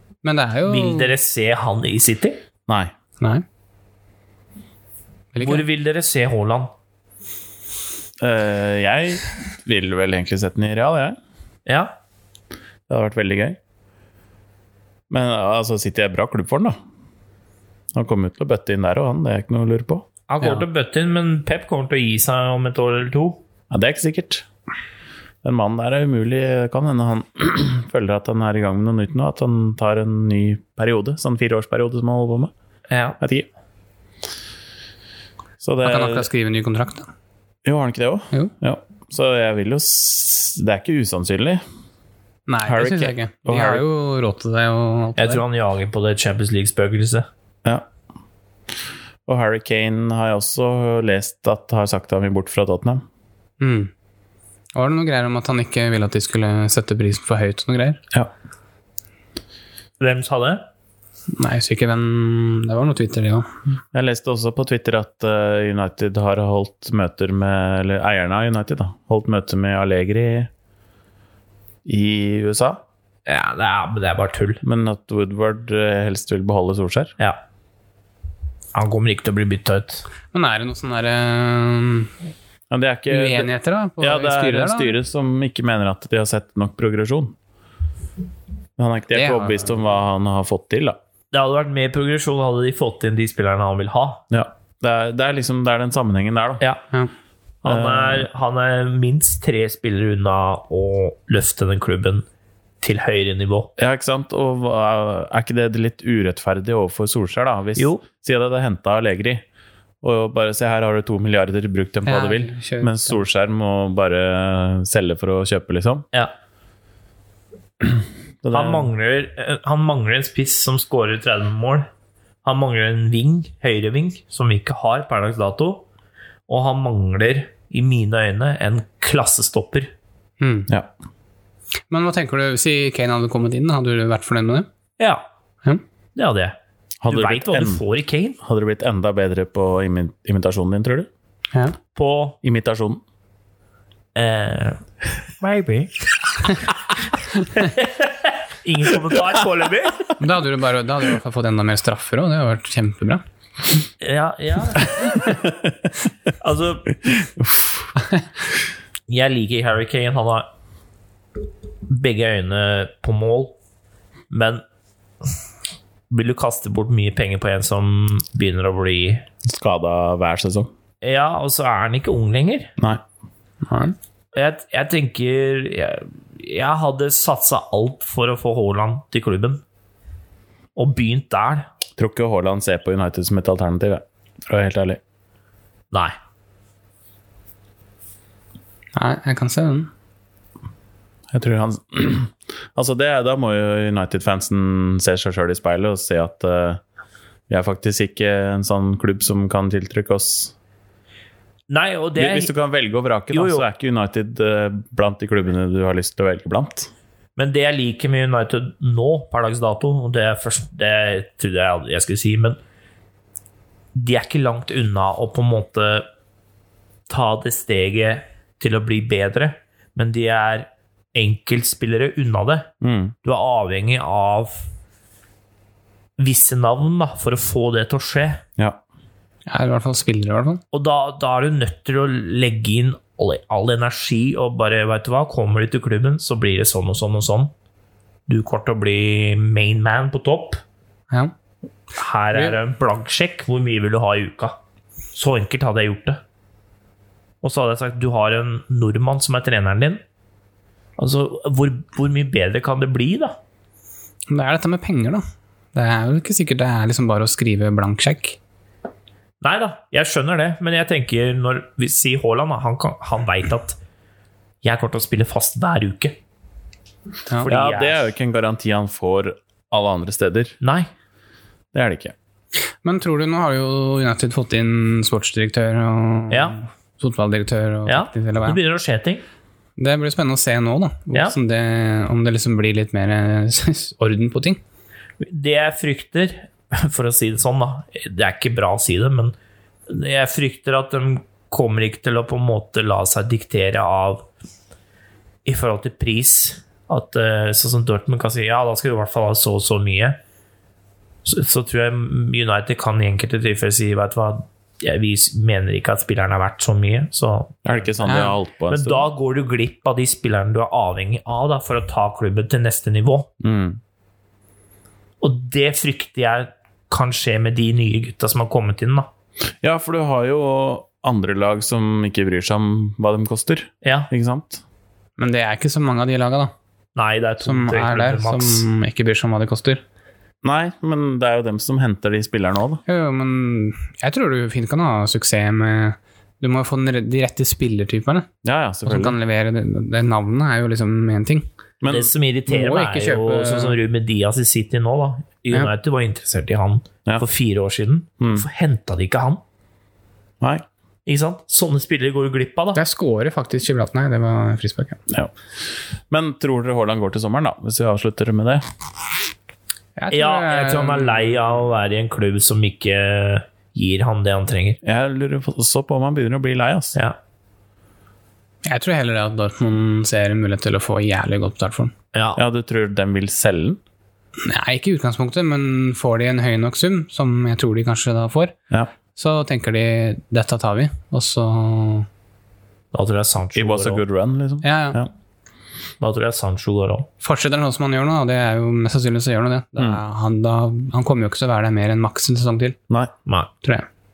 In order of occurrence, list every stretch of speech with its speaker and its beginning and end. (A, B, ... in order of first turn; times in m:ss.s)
0:00.2-0:01.1 A
0:00.7-0:02.4 B
0:05.4-0:05.6 A
0:05.4-0:06.7 B
0:08.2-0:11.2 C
0:11.7-0:11.9 B
0:12.9-0:13.6 C
0:15.1-0:16.8 C
0:17.9-0:20.1 C
0:20.3-0:23.4 B
0:23.7-0:24.5 C
0:25.4-0:32.5 C
0:32.9-0:33.2 B
0:33.2-0:33.5 C
0:35.6-0:36.3 C
0:35.8-0:37.1 A
0:37.6-0:41.6 C
0:42.5-0:45.4 A
0:42.6-0:43.8 C
0:45.2-0:47.3 B
0:49.3-0:53.0 C
0:53.6-0:53.9 A
0:54.8-0:58.0 A
1:00.0-1:00.6 B
1:01.4-1:03.5 A
1:03.9-1:10.5 C
1:11.8-1:12.8 C
1:13.3-1:14.6 B
1:14.6-1:17.1 C
1:18.7-1:20.0 B
1:20.3-1:22.1 A
1:22.7-1:27.4 C
1:23.1-1:25.0 A
1:28.8-1:31.0 C
1:29.1-1:29.8 A
1:31.3-1:34.2 B
1:34.3-1:36.6 C
1:37.6-1:42.2 B
1:37.7-1:38.3 C
1:42.8-1:43.7 B
1:43.8-1:49.4 C
1:47.8-1:48.0 B
1:50.0-1:56.0 C
1:52.0-1:53.2 A
1:58.4-1:58.9 C
1:58.5-2:01.9 B
2:02.4-2:05.8 B
2:06.5-2:09.9 B
2:10.4-2:10.7 A
2:11.9-2:14.7 A
2:16.1-2:16.6 B
2:17.0-2:17.8 C
2:17.1-2:18.4 B
2:18.4-2:21.1 C
2:22.0-2:22.4 B
2:22.4-2:23.0 C
2:24.1-2:24.8 B
2:25.4-2:26.7 B
2:27.6-2:30.1 B
2:30.2-2:33.2 A
2:34.0-2:35.3 B
2:35.3-2:35.7 C
2:36.4-2:37.0 B
2:37.1-2:37.9 C
2:38.0-2:38.2 A
2:39.1-2:40.5 B
2:41.9-2:43.6 B
2:44.3-2:44.6 B
2:46.1-2:49.2 B
2:49.4-2:50.7 C
2:51.0-2:52.7 B
2:53.6-2:54.0 A
2:54.3-2:59.6 B
3:00.8-3:01.7 B
3:02.0-3:05.0 C
3:09.0-3:09.9 A
3:11.3-3:16.8 C
3:17.5-3:20.5 C
3:21.7-3:22.5 B
3:22.2-3:26.9 C
3:23.3-3:23.7 B
3:27.4-3:32.6 B
3:34.0-3:36.1 B
3:37.1-3:42.7 B
3:42.8-3:43.1 C
3:43.2-3:44.7 B
3:46.2-3:48.4 B
3:49.5-3:50.6 A
3:50.7-3:57.5 B
3:58.3-4:00.6 B
4:02.0-4:04.6 B
4:05.1-4:06.2 B
4:07.4-4:10.0 B
4:11.0-4:13.4 B
4:14.3-4:15.2 A
4:15.7-4:18.4 A
4:19.4-4:23.8 B
4:24.6-4:26.2 B
4:27.4-4:28.1 B
4:27.5-4:30.6 C
4:30.6-4:30.9 B
4:31.7-4:32.1 C
4:32.8-4:38.6 A
4:36.3-4:36.6 B
4:37.9-4:39.2 B
4:39.8-4:44.6 A
4:45.2-4:49.4 B
4:49.9-4:54.3 B
4:55.4-5:00.2 B
5:01.2-5:07.7 B
5:07.6-5:09.0 C
5:08.0-5:08.4 A
5:08.7-5:13.3 B
5:13.4-5:13.8 C
5:15.2-5:19.1 B
5:19.6-5:24.6 C
5:23.8-5:24.1 B
5:25.2-5:26.5 A
5:27.0-5:28.6 B
5:27.4-5:29.8 A
5:30.4-5:32.8 C
5:32.9-5:38.3 A
5:38.4-5:39.2 C
5:38.9-5:41.5 A
5:41.8-5:42.1 C
5:41.9-5:49.4 B
5:42.5-5:43.8 A
5:48.2-5:48.5 C
5:51.1-5:52.8 B
5:52.8-5:55.0 A
5:56.1-5:58.6 C
6:00.0-6:01.4 A
6:00.1-6:04.8 B
6:04.8-6:07.0 C
6:08.6-6:11.9 A
6:12.1-6:12.4 B
6:12.4-6:13.8 C
6:14.4-6:18.6 A
6:19.1-6:22.1 A
6:22.9-6:24.0 B
6:23.6-6:25.1 C
6:24.6-6:25.0 A
6:26.0-6:27.1 B
6:27.2-6:32.8 A